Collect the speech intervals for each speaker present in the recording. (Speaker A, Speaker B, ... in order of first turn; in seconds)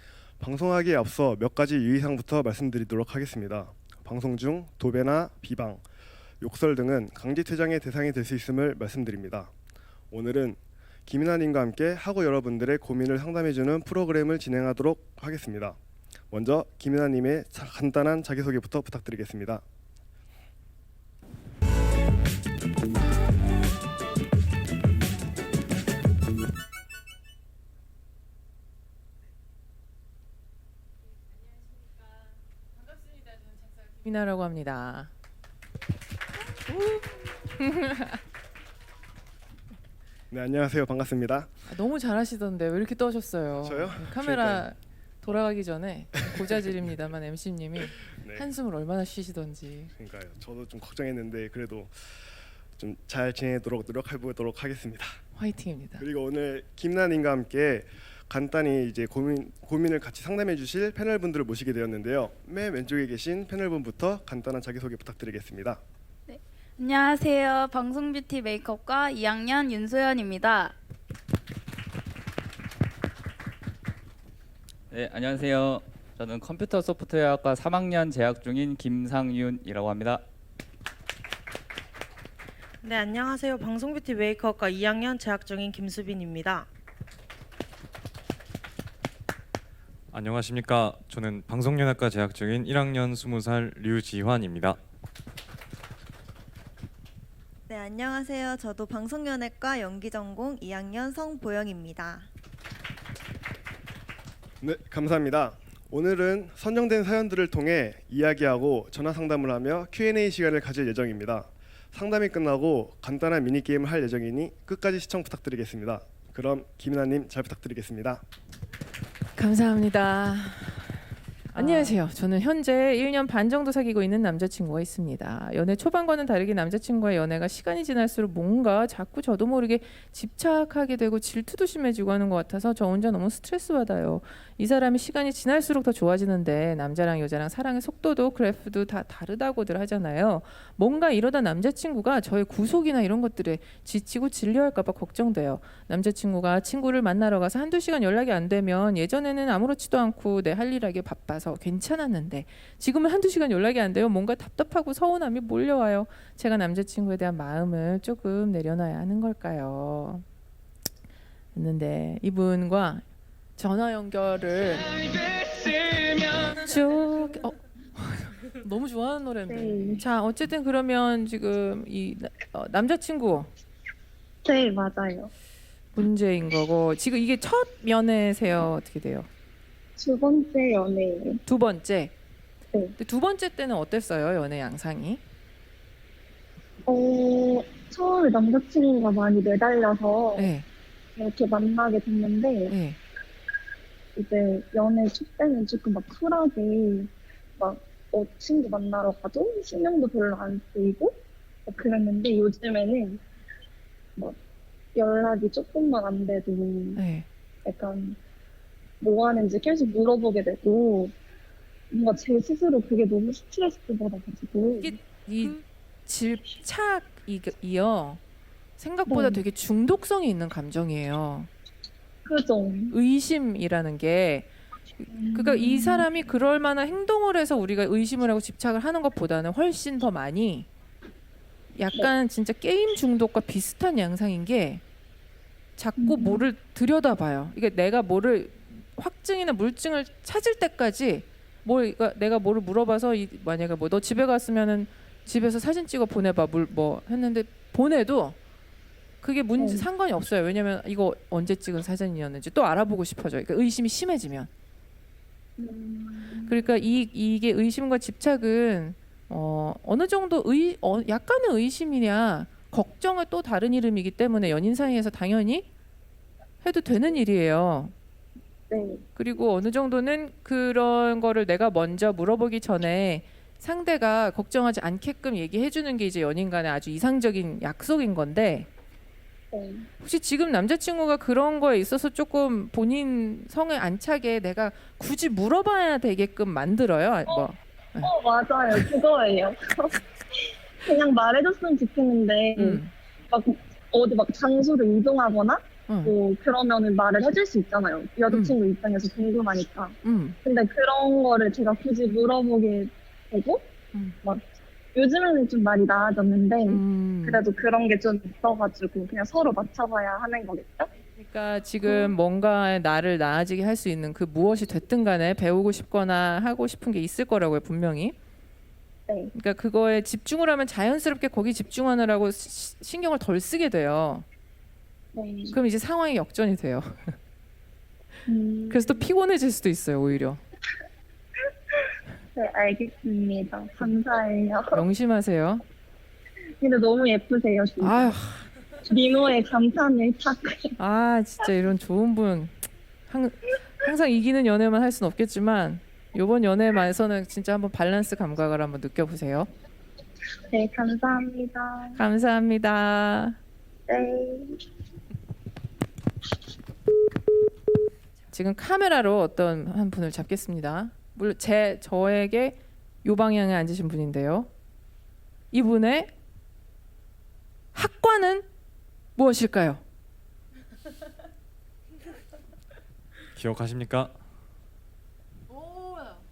Speaker A: 0.4-5.8, 6.4-9.5, 10.1-15.8, 16.3-19.6, 40.3-41.5, 43.6-44.7, 48.0-48.5, 50.0-55.2, 56.0-65.8, 104.6-118.2
Speaker B: 33.0-35.1, 36.8-38.2, 41.6-49.9, 55.3-56.0, 119.3-160.2, 161.5-163.0, 163.6-173.5, 175.9-179.3, 181.4-182.1, 183.0-185.2, 190.3-190.7, 192.7-193.0, 206.9-207.3, 214.7-218.2, 218.8-221.5, 222.9-230.7, 231.7-234.8, 235.8-248.4, 249.2-254.5, 256.5-265.7, 266.6-267.9, 269.1-278.7, 280.0-288.1, 292.5-292.9, 295.9-296.1, 298.3-298.6, 300.0-300.4, 303.9-304.2, 306.7-307.4, 311.1-318.1, 319.3-324.2, 325.5-327.2, 328.7-330.4, 334.7-335.6, 337.8-338.5, 340.8-342.6, 343.1-349.5, 351.9-353.4, 358.3-364.5, 365.5-366.1, 367.7-368.5, 369.1-369.8
Speaker C: 66.3-70.7
Speaker D: 74.9-80.2
Speaker E: 82.8-86.7
Speaker F: 90.1-94.8, 373.3-374.1
Speaker G: 97.7-102.3
Speaker H: 169.4-170.1, 174.4-175.3, 180.0-181.4, 186.9-190.5, 191.2-192.7, 194.2-203.2, 204.9-207.0, 207.6-208.2, 209.0-211.1, 211.9-215.0, 219.1-219.4, 222.2-222.9, 225.1-226.1, 236.0-236.5, 249.6-249.8, 255.6-256.6, 268.7-269.0, 279.5-279.9, 288.0-303.7, 304.2-310.9, 311.8-312.1, 319.1-319.3, 325.1-325.6, 328.2-329.0, 332.4-334.8, 336.6-338.2, 338.9-340.7, 350.5-352.0, 353.9-354.6